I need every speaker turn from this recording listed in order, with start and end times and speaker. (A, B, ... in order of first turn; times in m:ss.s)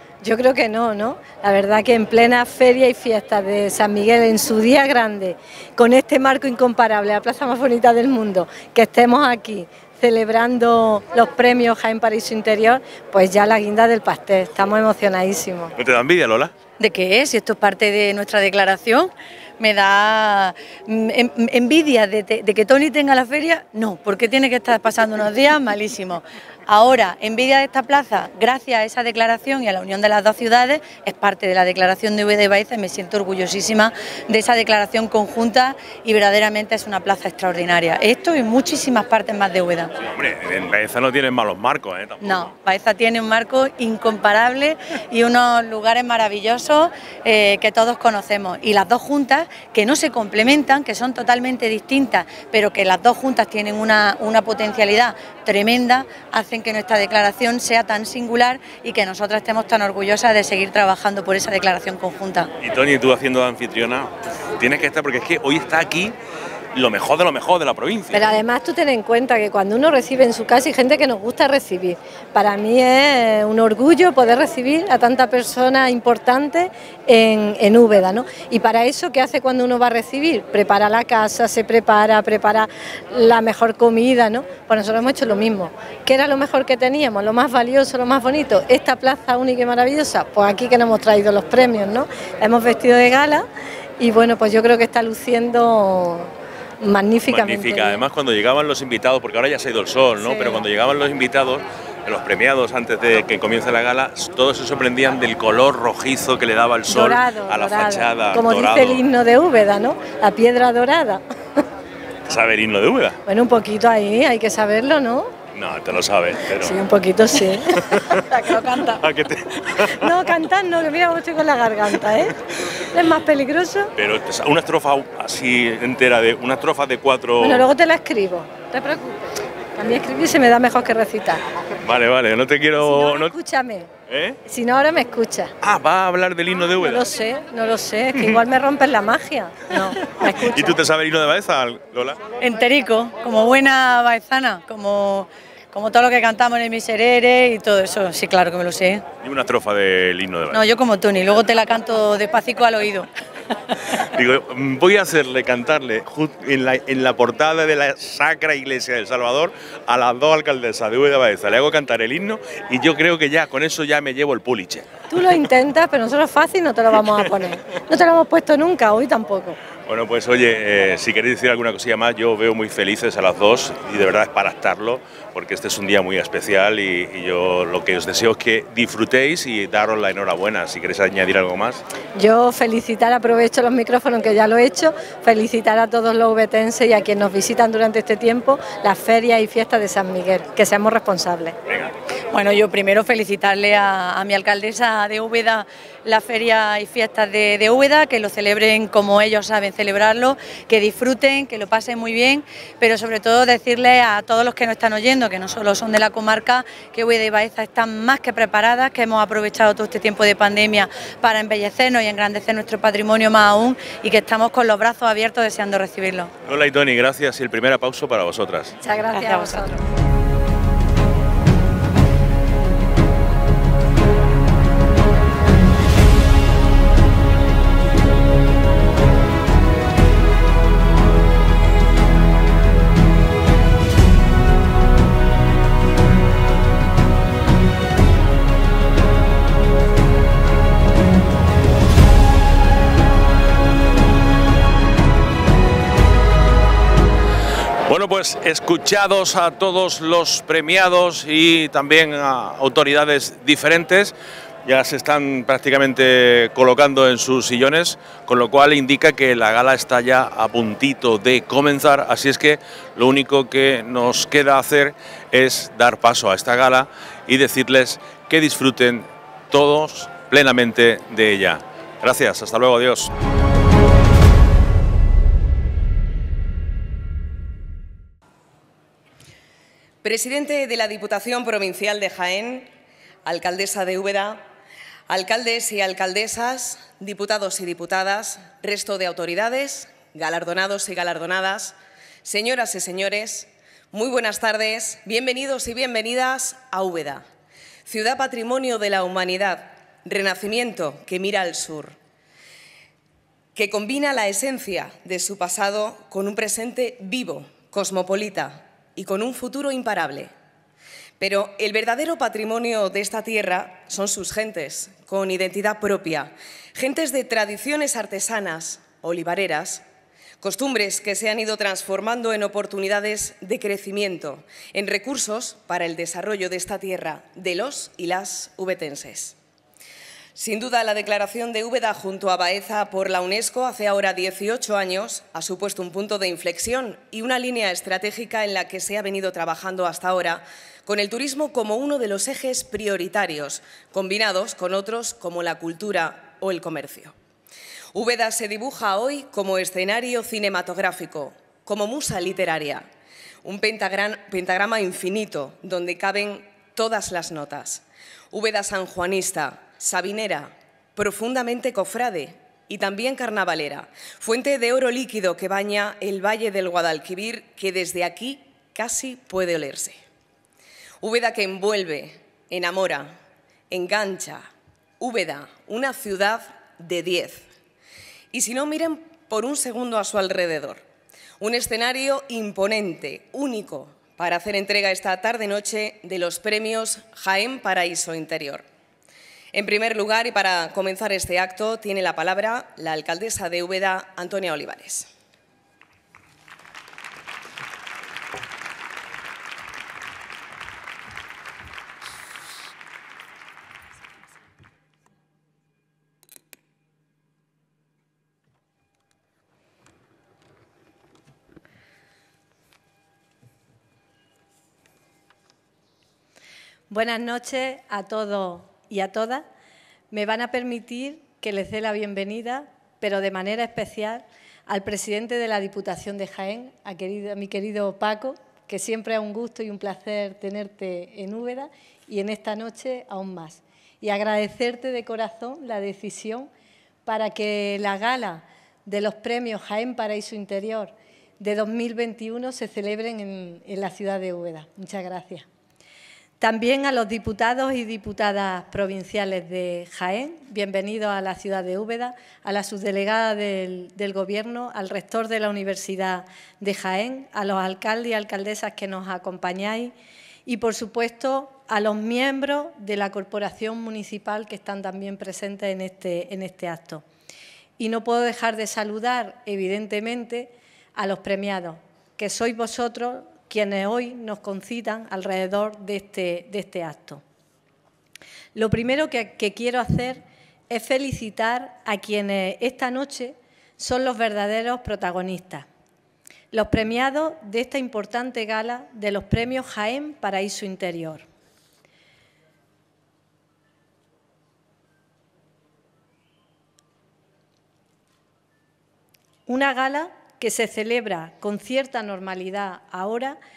0:00.2-0:15.7 A
0:15.8-0:16.5 B
0:16.8-0:39.9 C
0:40.1-0:42.2 B
0:42.2-1:02.5 C
1:02.6-1:06.2 B
1:06.7-1:08.4 B
1:08.1-1:33.5 A
1:34.0-1:38.0 A
1:37.2-1:49.0 B
1:40.2-1:40.6 A
1:46.9-1:51.2 A
1:52.3-1:53.2 B
1:53.3-1:55.3 A
1:55.6-1:56.8 B
1:56.6-1:59.0 A
1:57.9-1:58.2 B
1:58.9-2:00.1 B
2:00.0-2:02.4 A
2:02.9-2:03.9 A
2:04.0-2:07.7 B
2:07.4-2:09.2 A
2:09.8-2:11.4 A
2:11.8-2:13.3 B
2:12.8-2:13.9 A
2:14.1-2:14.4 B
2:14.5-2:15.5 A
2:15.6-2:17.1 B
2:16.8-2:20.8 A
2:20.1-2:22.2 B
2:22.4-2:29.0 C
2:29.2-2:30.6 B
2:30.5-2:33.1 C
2:34.1-2:45.3 B
2:45.1-2:49.6 A
2:49.9-3:01.8 B
3:02.2-3:11.6 A
3:12.3-3:36.3 C
3:36.5-3:38.8 B
3:38.8-3:39.8 A
3:39.1-3:39.7 C
4:07.9-4:14.1 B
4:14.6-4:33.1 B
4:40.0-4:42.7 D
4:43.2-4:44.4 D
4:45.1-4:57.3 D
4:57.9-5:02.0 D
5:03.6-5:10.3 D
5:11.2-5:19.8 D
5:20.4-5:29.4 D
5:30.4-5:47.1 D
5:47.9-5:52.9 D
5:53.4-6:10.0 D
6:11.0-6:13.2 D
6:13.7-6:14.5 D
6:15.0-6:17.5 D
6:18.3-6:20.8 D
6:21.4-6:28.6 D
6:29.5-6:35.1 D
6:56.9-6:59.5 A
7:00.1-7:16.5 A
7:17.1-7:25.5 A
7:26.4-7:39.9 A
7:40.5-7:47.0 A
7:47.8-7:57.2 A
7:58.6-8:05.7 A
8:06.5-8:11.3 A
8:19.5-8:23.4 A